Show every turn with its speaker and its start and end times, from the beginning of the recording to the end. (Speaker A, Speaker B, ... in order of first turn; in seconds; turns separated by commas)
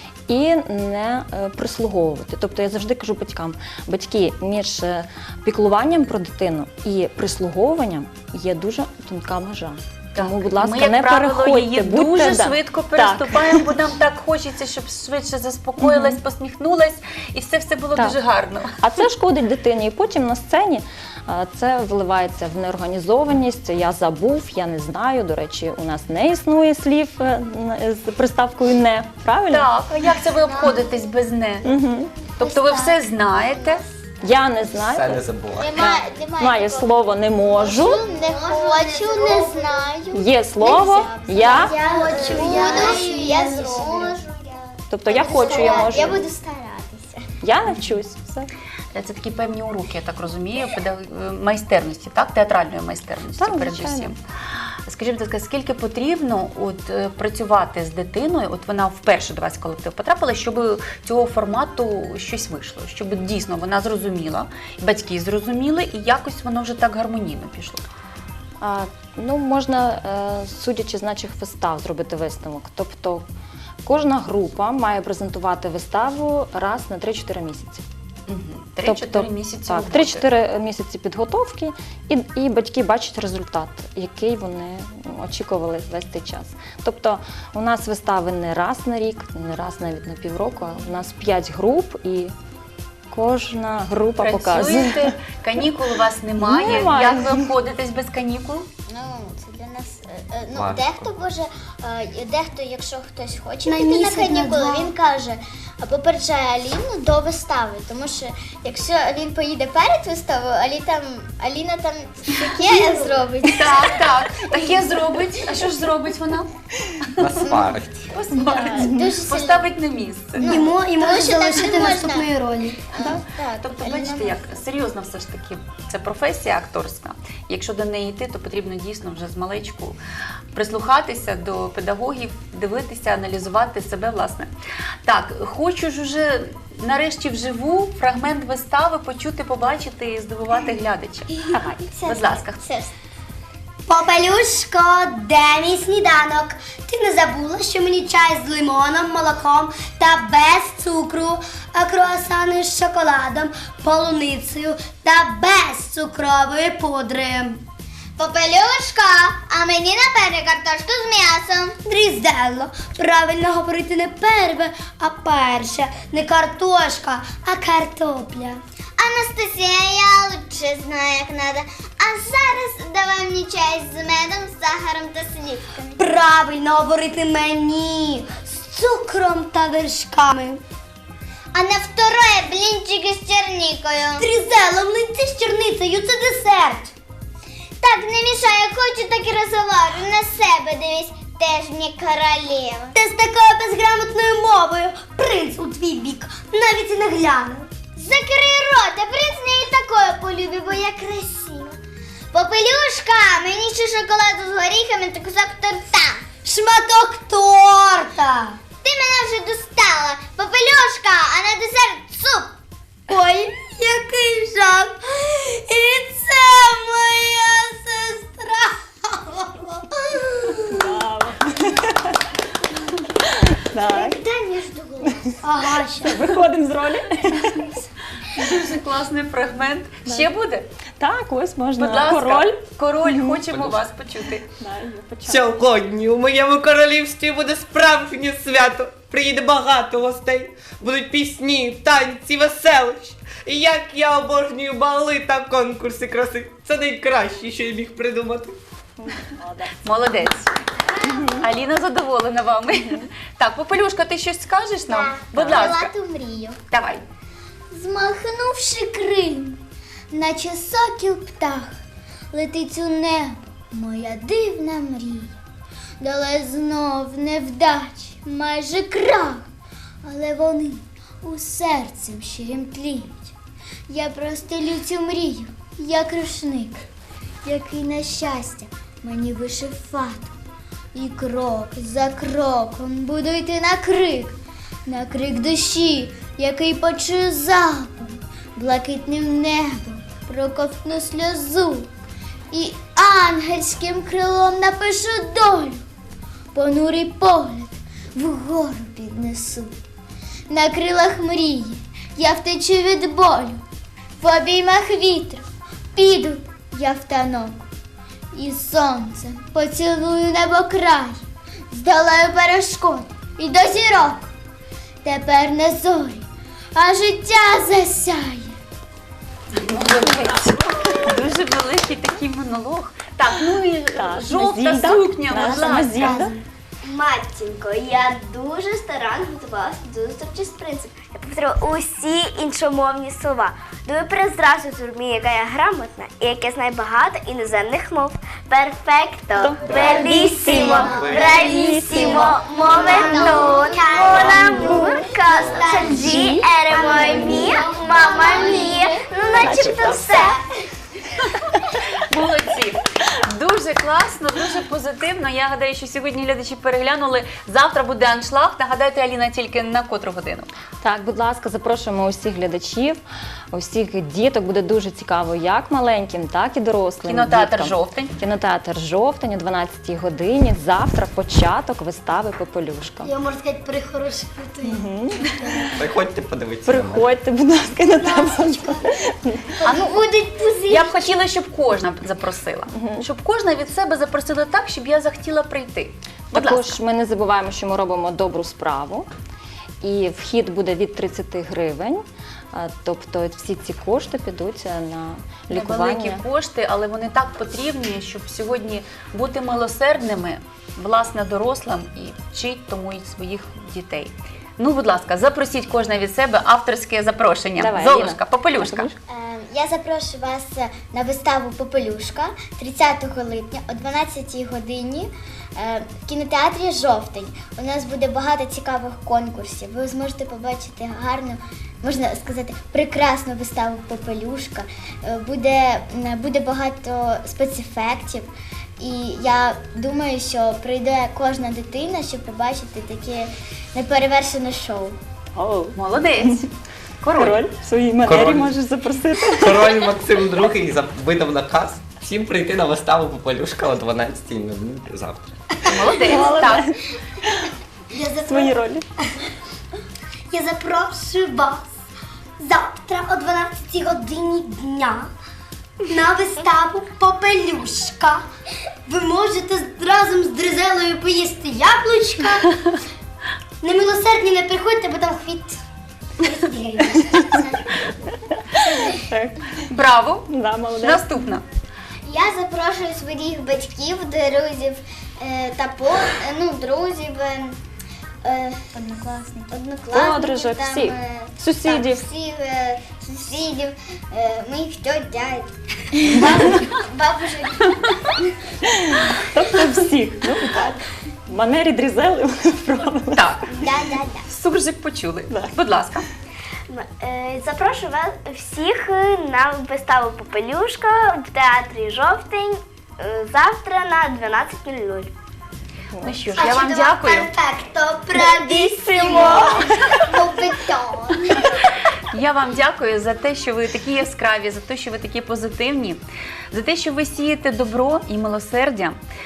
Speaker A: 0.3-13.8, Speaker B: 10.2-18.8, Speaker A: 15.8-16.2, Speaker A: 18.8-29.7, Speaker B: 29.5-31.7, Speaker C: 30.6-30.9, Speaker A: 31.6-32.2, Speaker B: 32.4-33.8, Speaker A: 34.2-35.2, Speaker D: 34.8-35.8, Speaker C: 35.6-36.9, Speaker A: 35.8-38.1, Speaker C: 37.5-47.3, Speaker E: 38.1-39.9, Speaker A: 40.1-41.8, Speaker E: 41.5-44.2, Speaker A: 44.9-46.2, Speaker E: 45.3-46.0, Speaker A: 47.4-48.5, Speaker B: 48.9-54.2, Speaker A: 53.4-54.1, Speaker B: 54.9-67.8, Speaker A: 68.6-73.2, Speaker A: 73.8-77.8, Speaker B: 78.3-80.3, Speaker A: 78.8-92.3, Speaker A: 93.1-95.1, Speaker B: 94.2-98.7, Speaker A: 96.4-97.5, Speaker C: 98.9-114.1, Speaker D: 100.5-101.1, Speaker E: 103.7-104.9, Speaker E: 112.7-113.1, Speaker B: 113.5-116.5, Speaker D: 117.2-118.0, Speaker C: 117.4-117.7, Speaker B: 118.1-120.5, Speaker C: 118.2-119.8, Speaker A: 118.4-119.1, Speaker C: 120.4-122.3, Speaker E: 120.4-122.9, Speaker C: 122.9-124.5, Speaker B: 123.0-130.0, Speaker B: 130.5-134.5, Speaker B: 135.0-142.6, Speaker C: 141.4-142.9, Speaker E: 143.9-157.6, Speaker C: 158.2-161.8, Speaker E: 161.8-168.6, Speaker C: 169.0-176.0, Speaker E: 176.0-180.6, Speaker C: 181.5-184.3, Speaker E: 184.2-186.9, Speaker C: 187.8-193.0, Speaker E: 192.9-197.7, Speaker C: 198.0-201.8, Speaker C: 202.3-206.3, Speaker E: 206.4-208.6, Speaker C: 208.8-212.5, Speaker C: 213.1-218.1, Speaker E: 215.5-216.8, Speaker E: 217.7-220.8, Speaker C: 220.1-220.7, Speaker A: 220.7-222.3, Speaker A: 223.3-224.2, Speaker C: 223.8-225.4, Speaker E: 225.4-226.3, Speaker A: 225.8-227.9, Speaker B: 228.2-230.7, Speaker A: 231.0-233.4, Speaker B: 231.8-234.5, Speaker D: 233.5-233.8, Speaker A: 234.5-235.5, Speaker D: 235.3-248.6, Speaker A: 249.0-250.3, Speaker B: 249.8-250.5, Speaker A: 251.0-251.5, Speaker B: 251.3-255.9, Speaker C: 254.8-256.6, Speaker A: 255.4-255.7, Speaker B: 256.7-257.0, Speaker C: 257.7-261.8, Speaker C: 262.3-265.4, Speaker C: 266.0-269.5, Speaker C: 270.0-273.3, Speaker C: 273.9-276.9, Speaker C: 277.4-280.3, Speaker C: 280.9-291.9, Speaker C: 292.5-295.8, Speaker C: 296.5-299.7, Speaker C: 300.5-303.6, Speaker C: 304.2-305.4, Speaker C: 305.9-307.7, Speaker C: 308.3-314.3, Speaker C: 315.0-318.6, Speaker B: 319.5-326.2, Speaker A: 319.8-321.0, Speaker A: 323.9-326.4, Speaker E: 326.0-326.4, Speaker F: 326.8-350.4, Speaker A: 339.4-343.3, Speaker D: 339.6-340.1, Speaker E: 339.9-349.1, Speaker D: 340.8-341.5, Speaker C: 342.7-343.8, Speaker A: 344.2-345.1, Speaker D: 345.4-346.0, Speaker A: 345.8-346.5, Speaker C: 346.7-348.9, Speaker A: 347.1-347.5, Speaker A: 349.4-350.0, Speaker D: 349.4-350.0, Speaker B: 351.7-360.5, Speaker A: 360.8-363.0, Speaker A: 363.5-373.1, Speaker B: 367.0-368.1, Speaker E: 373.0-375.8, Speaker A: 374.6-375.8, Speaker D: 375.8-377.1, Speaker A: 376.6-379.6, Speaker E: 377.8-379.0, Speaker E: 379.6-381.1, Speaker B: 379.6-380.0, Speaker C: 380.0-380.8, Speaker B: 380.7-386.8, Speaker A: 382.7-383.1, Speaker A: 386.3-389.1, Speaker A: 389.8-396.2, Speaker B: 395.5-408.9, Speaker A: 407.6-409.0, Speaker C: 409.1-435.0, Speaker A: 435.4-436.4, Speaker B: 435.8-437.4, Speaker A: 437.1-439.9, Speaker D: 438.0-438.5, Speaker D: 439.3-445.4, Speaker B: 445.6-446.7, Speaker A: 446.1-447.5, Speaker E: 447.9-448.6, Speaker A: 448.3-448.9, Speaker E: 450.3-451.7, Speaker E: 452.4-455.1, Speaker E: 455.9-458.2, Speaker E: 458.9-462.5, Speaker E: 463.6-465.6, Speaker E: 466.2-467.5, Speaker C: 467.3-467.6, Speaker A: 468.3-469.7, Speaker B: 469.7-471.4, Speaker A: 470.3-471.2, Speaker C: 472.1-477.6, Speaker C: 478.2-488.3, Speaker A: 479.9-482.0, Speaker A: 488.6-493.3, Speaker B: 493.1-493.4, Speaker C: 493.5-494.3, Speaker B: 494.3-496.1, Speaker F: 496.7-505.1, Speaker A: 505.9-506.2, Speaker B: 506.0-507.3, Speaker E: 506.3-511.4, Speaker A: 508.2-510.0, Speaker B: 511.9-519.0